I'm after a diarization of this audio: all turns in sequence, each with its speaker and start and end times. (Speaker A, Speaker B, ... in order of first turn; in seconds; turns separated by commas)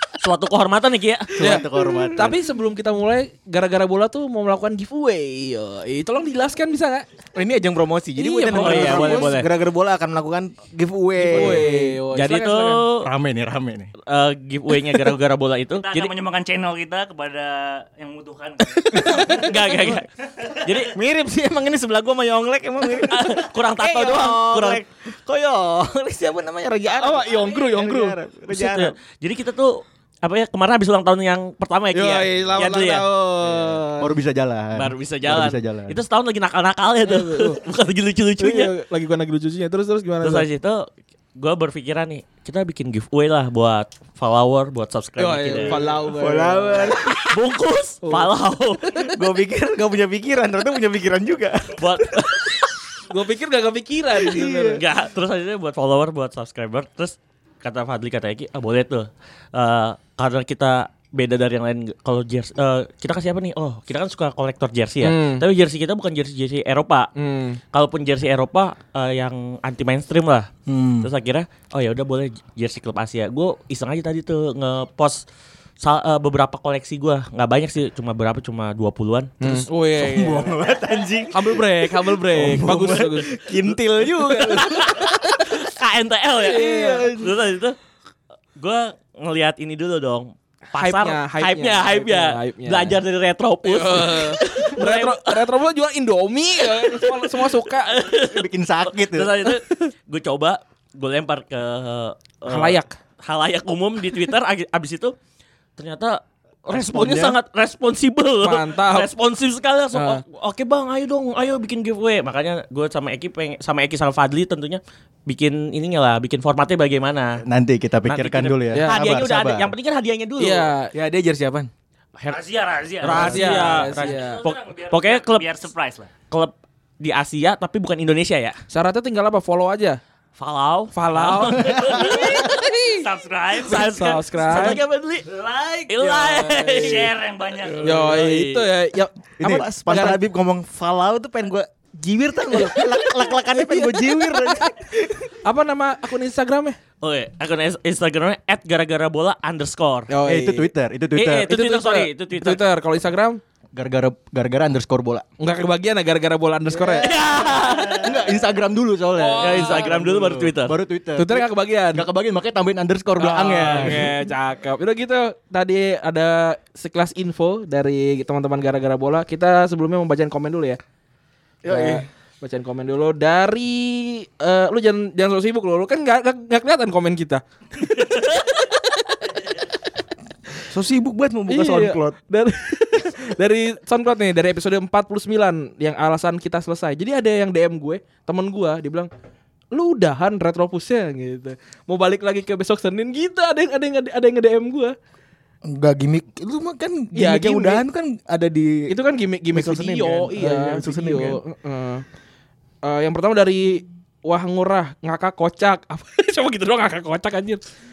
Speaker A: 0.2-1.4, Speaker B: 1.4-2.4, Speaker C: 1.4-7.0, Speaker D: 7.3-12.0, Speaker C: 8.2-9.3, Speaker A: 8.5-9.5, Speaker C: 11.2-12.8, Speaker A: 12.1-13.0, Speaker B: 13.0-13.9, Speaker A: 14.1-16.1, Speaker E: 15.8-19.4, Speaker D: 18.9-19.7, Speaker A: 19.1-20.0, Speaker A: 20.6-20.9, Speaker D: 20.9-28.9, Speaker A: 23.1-24.8, Speaker C: 26.9-28.2, Speaker A: 28.5-33.1, Speaker C: 31.9-33.8, Speaker D: 32.3-34.2, Speaker B: 34.0-36.0, Speaker A: 34.7-38.7, Speaker C: 37.0-37.6, Speaker C: 38.4-40.5, Speaker A: 40.2-45.8, Speaker C: 45.2-46.9, Speaker D: 45.6-47.2, Speaker A: 47.3-48.8, Speaker C: 48.0-48.3, Speaker D: 49.0-52.6, Speaker A: 51.8-52.4, Speaker C: 53.1-54.8, Speaker D: 54.1-54.8, Speaker A: 54.7-67.1, Speaker C: 65.0-65.4, Speaker C: 67.2-67.6, Speaker A: 67.7-70.5, Speaker D: 70.7-71.0, Speaker A: 71.0-75.2, Speaker A: 75.8-79.5, Speaker C: 79.4-80.5, Speaker D: 79.9-85.1, Speaker C: 81.3-83.3, Speaker C: 84.3-84.6, Speaker A: 84.6-87.8, Speaker C: 86.4-87.1, Speaker D: 86.5-87.3, Speaker A: 88.6-95.5, Speaker C: 90.7-93.0, Speaker C: 93.6-98.0, Speaker A: 96.8-105.1, Speaker B: 98.2-99.3, Speaker C: 102.4-102.9, Speaker A: 105.8-117.4, Speaker B: 106.7-107.4, Speaker C: 108.4-109.1, Speaker C: 109.9-110.2, Speaker B: 117.5-119.7, Speaker A: 118.0-120.7, Speaker C: 118.7-119.0, Speaker C: 120.4-120.9, Speaker D: 120.9-121.7, Speaker E: 122.3-126.1, Speaker A: 123.0-125.5, Speaker C: 123.0-124.4, Speaker A: 126.3-128.6, Speaker C: 128.7-130.0, Speaker A: 130.4-132.5, Speaker C: 130.9-133.1, Speaker E: 131.9-138.1, Speaker A: 133.6-135.2, Speaker C: 133.6-134.8, Speaker A: 135.9-137.1, Speaker C: 136.2-137.1, Speaker A: 137.8-138.7, Speaker C: 137.8-140.2, Speaker D: 139.4-145.3, Speaker C: 142.6-144.5, Speaker C: 145.4-146.8, Speaker A: 147.0-150.1, Speaker C: 150.1-150.7, Speaker B: 150.2-151.5, Speaker A: 151.2-152.6, Speaker C: 151.5-153.4, Speaker B: 153.7-155.2, Speaker C: 155.4-157.1, Speaker A: 157.0-158.1, Speaker B: 157.9-164.1, Speaker C: 159.1-160.0, Speaker A: 159.4-160.7, Speaker C: 161.2-162.1, Speaker C: 163.2-170.8, Speaker D: 171.6-172.0, Speaker C: 171.7-178.8, Speaker D: 180.7-182.2, Speaker C: 181.5-189.1, Speaker C: 189.7-194.9, Speaker D: 195.6-198.9, Speaker C: 197.1-197.8, Speaker C: 198.9-202.0, Speaker D: 199.5-201.4, Speaker C: 202.8-207.6